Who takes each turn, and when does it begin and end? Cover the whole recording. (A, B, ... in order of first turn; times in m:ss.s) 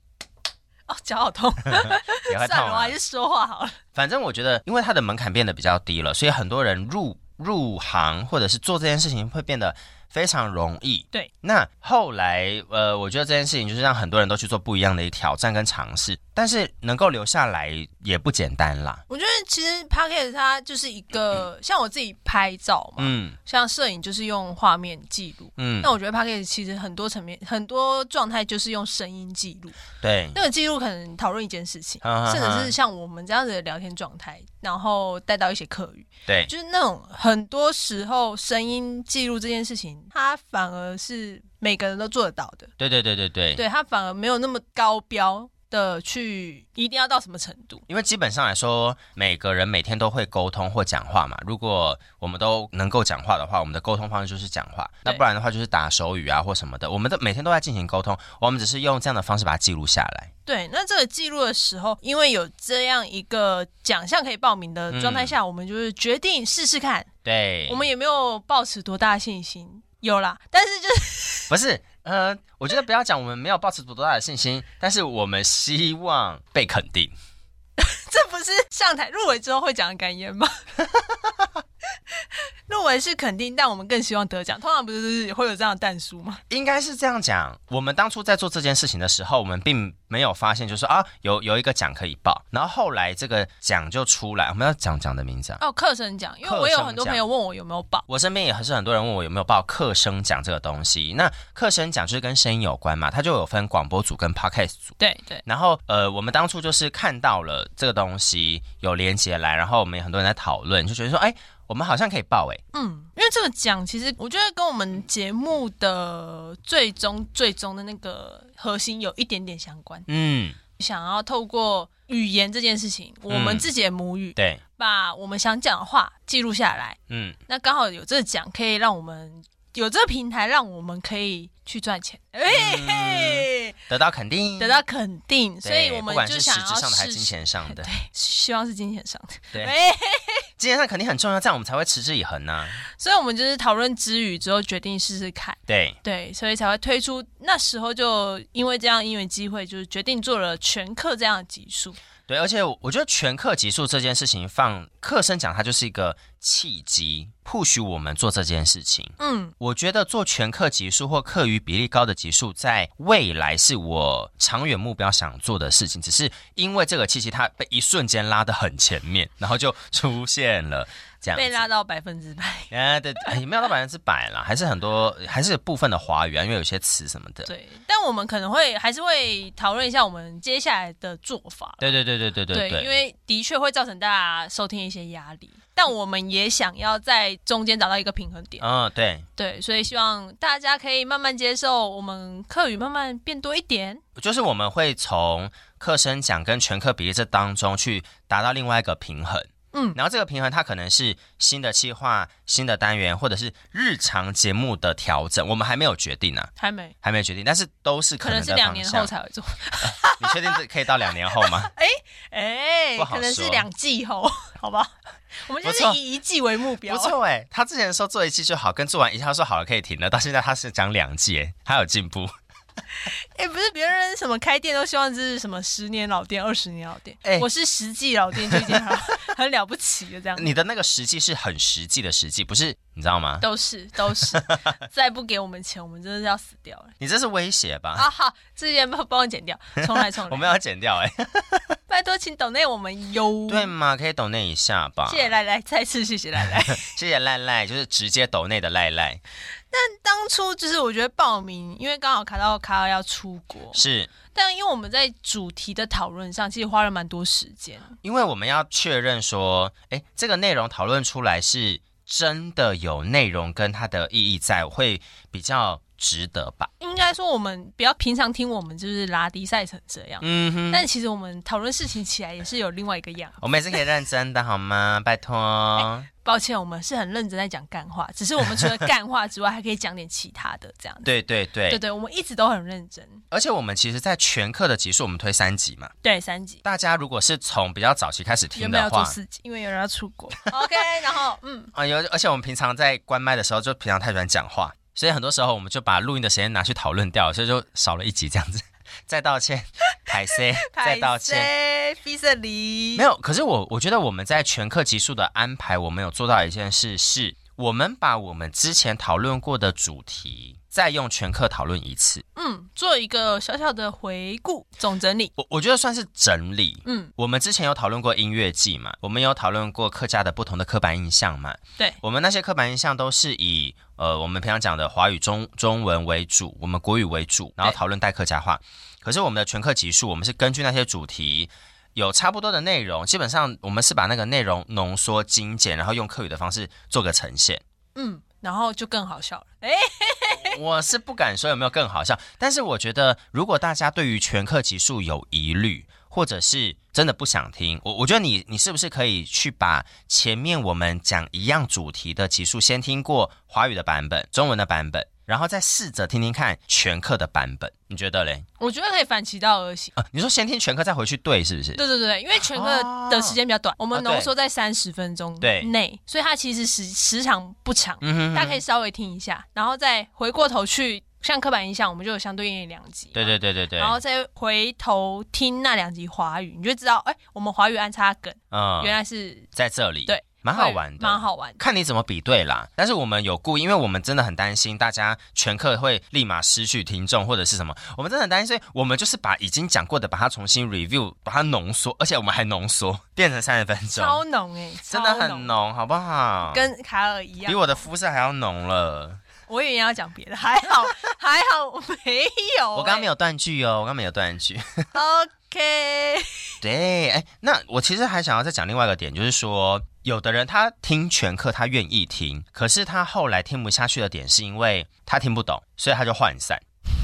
0:00.9-0:03.8 A
0:01.7-0:02.9 B
0:03.9-0:19.0 B
0:19.1-0:29.8 A
0:23.0-0:23.4 B
0:25.6-0:25.9 B
0:30.0-0:30.4 B
0:30.3-0:42.7 A
0:32.0-0:32.7 B
0:42.8-0:43.6 B
0:43.6-0:47.8 A
0:47.9-1:00.3 B
1:00.4-1:07.1 A
1:04.9-1:05.3 B
1:07.2-1:07.8 B
1:07.7-1:11.5 A
1:11.5-1:17.1 B
1:17.8-1:20.5 A
1:21.1-1:21.5 B
1:22.1-1:26.4 A
1:26.5-1:35.6 B
1:35.6-1:38.0 A
1:36.4-1:37.2 B
1:38.1-1:52.6 B
1:45.0-1:45.4 A
1:52.7-2:00.1 A
2:00.1-2:00.6 B
2:00.8-2:13.7 A
2:03.3-2:03.7 B
2:04.4-2:04.6 B
2:07.1-2:07.4 B
2:12.5-2:14.8 B
2:14.6-2:20.5 A
2:15.6-2:17.9 B
2:20.6-2:22.8 B
2:22.9-2:32.0 A
2:25.7-2:26.0 B
2:32.3-2:51.6 B
2:39.2-2:39.5 A
2:51.3-2:52.7 A
2:52.7-2:57.5 B
2:57.4-3:01.9 A
3:01.8-3:03.0 B
3:02.5-3:08.6 A
3:08.6-3:09.2 B
3:09.4-3:14.0 A
3:14.2-3:26.5 B
3:19.7-3:20.0 A
3:26.6-3:26.9 A
3:27.0-3:29.1 B
3:28.2-3:30.6 A
3:29.8-3:31.7 B
3:31.1-3:37.1 A
3:33.0-3:33.6 B
3:35.6-3:36.0 B
3:36.8-3:42.3 B
3:43.0-3:50.5 A
3:48.4-3:48.8 B
3:50.3-3:53.5 B
3:53.4-3:57.0 A
3:54.1-3:54.8 B
3:57.0-3:58.1 B
3:57.9-4:00.5 A
3:59.8-4:01.8 B
4:01.9-4:03.7 A
4:03.5-4:05.3 B
4:05.0-4:06.9 A
4:06.5-4:09.2 B
4:09.7-4:13.8 A
4:13.7-4:14.1 B
4:14.3-4:17.9 A
4:18.0-4:26.7 B
4:26.8-4:33.4 A
4:30.2-4:30.8 B
4:33.4-4:36.1 B
4:35.8-4:41.0 A
4:41.0-4:41.8 B
4:41.7-4:43.2 A
4:43.3-4:45.9 B
4:46.0-4:46.6 A
4:46.6-4:49.2 B
4:48.6-4:51.7 A
4:51.7-5:01.5 B
5:00.3-5:03.0 A
5:02.9-5:12.2 B
5:12.3-5:15.3 A
5:15.4-5:37.6 B
5:16.8-5:17.1 A
5:37.9-5:40.6 A
5:40.3-5:58.4 B
5:58.6-5:59.9 A
5:59.9-6:01.8 B
6:01.8-6:19.5 A
6:02.4-6:03.4 B
6:03.9-6:04.3 B
6:05.4-6:05.7 B
6:08.0-6:08.6 B
6:13.1-6:14.0 B
6:18.5-6:19.0 B
6:19.5-6:34.2 B
6:20.1-6:21.6 A
6:33.9-6:35.5 A
6:34.9-6:36.7 B
6:36.5-6:37.8 A
6:37.4-6:39.2 B
6:39.5-6:43.1 A
6:42.7-6:44.9 B
6:44.9-6:46.5 A
6:46.6-6:56.6 B